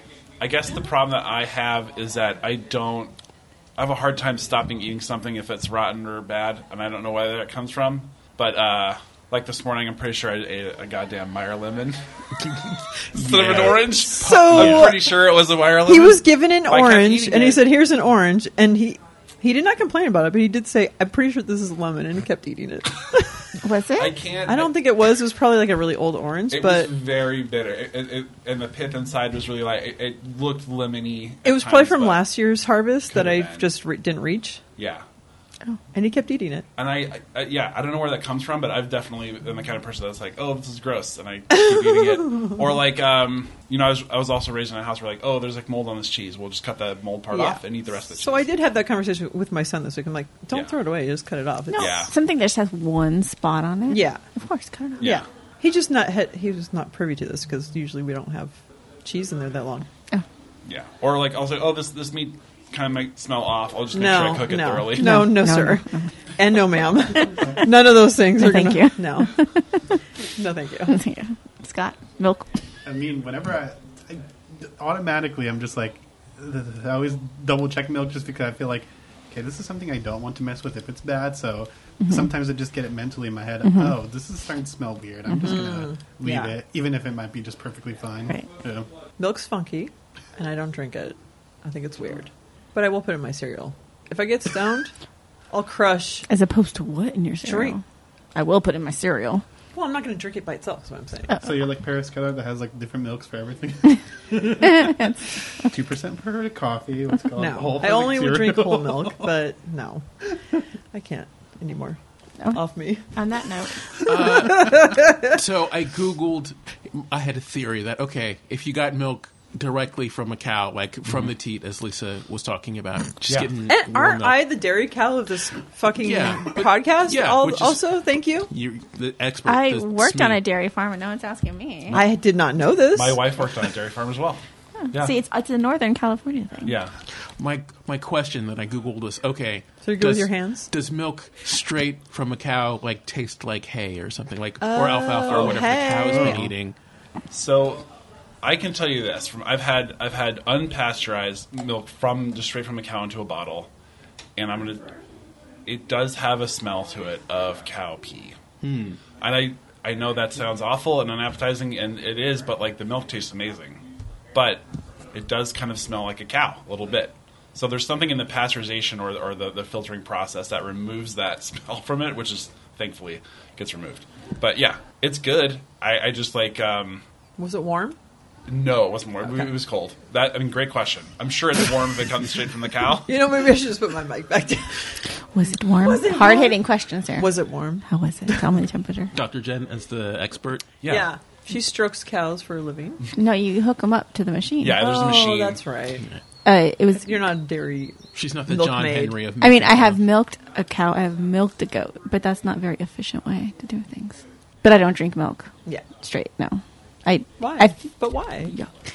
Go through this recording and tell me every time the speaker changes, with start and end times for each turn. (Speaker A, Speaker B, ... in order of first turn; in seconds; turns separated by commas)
Speaker A: 0.4-3.1, Speaker A: 3.8-12.0, Speaker B: 13.1-14.9, Speaker A: 13.1-17.7, Speaker C: 13.9-15.3, Speaker C: 15.8-23.4, Speaker D: 23.6-24.2, Speaker A: 24.0-24.8, Speaker C: 24.4-26.9, Speaker A: 26.5-32.2, Speaker C: 31.4-34.6, Speaker A: 33.1-33.7, Speaker A: 34.8-35.0, Speaker C: 35.9-36.6, Speaker A: 36.8-48.5, Speaker C: 47.3-52.1, Speaker A: 50.5-50.8, Speaker D: 51.7-55.0, Speaker A: 51.7-52.1, Speaker C: 53.9-54.2, Speaker A: 55.0-55.2, Speaker C: 55.0-59.9, Speaker A: 60.6-65.1, Speaker C: 63.9-65.8, Speaker D: 65.0-66.1, Speaker C: 66.4-69.3, Speaker D: 68.3-69.7, Speaker C: 70.4-71.0, Speaker D: 70.9-72.5, Speaker E: 72.8-88.9, Speaker D: 82.0-82.3, Speaker D: 83.6-84.0, Speaker D: 85.3-85.5, Speaker C: 85.4-86.6, Speaker C: 89.2-94.9, Speaker C: 95.5-96.3, Speaker D: 96.3-97.8, Speaker C: 97.4-97.8, Speaker D: 98.3-99.4, Speaker C: 99.7-101.3, Speaker E: 101.3-105.1, Speaker E: 105.6-109.2, Speaker C: 107.4-110.0, Speaker C: 110.9-112.0, Speaker D: 112.4-113.9, Speaker C: 112.5-113.0, Speaker B: 114.0-124.5, Speaker C: 114.3-115.2, Speaker A: 123.2-123.5, Speaker C: 123.7-128.5, Speaker B: 126.0-127.9, Speaker B: 128.5-130.4, Speaker D: 129.4-132.0, Speaker C: 131.9-133.2, Speaker A: 132.9-134.4, Speaker D: 134.9-136.8, Speaker A: 136.6-136.9, Speaker B: 137.4-146.8, Speaker C: 139.8-140.7, Speaker C: 144.6-146.4, Speaker A: 147.3-147.8, Speaker A: 148.4-153.7, Speaker A: 154.3-154.8, Speaker A: 155.7-158.3, Speaker B: 158.6-159.0, Speaker A: 159.2-177.0, Speaker C: 177.4-178.0, Speaker A: 178.5-183.1, Speaker C: 183.1-185.0, Speaker D: 185.3-187.3, Speaker C: 185.8-186.6, Speaker C: 187.2-187.8, Speaker D: 187.8-189.1, Speaker B: 189.1-190.7, Speaker A: 190.8-191.1, Speaker C: 190.8-193.0, Speaker D: 193.2-194.8, Speaker A: 194.6-195.6, Speaker C: 194.8-196.0, Speaker D: 196.4-197.3, Speaker C: 197.0-199.2, Speaker B: 198.1-200.0, Speaker D: 199.4-208.7, Speaker C: 207.4-208.5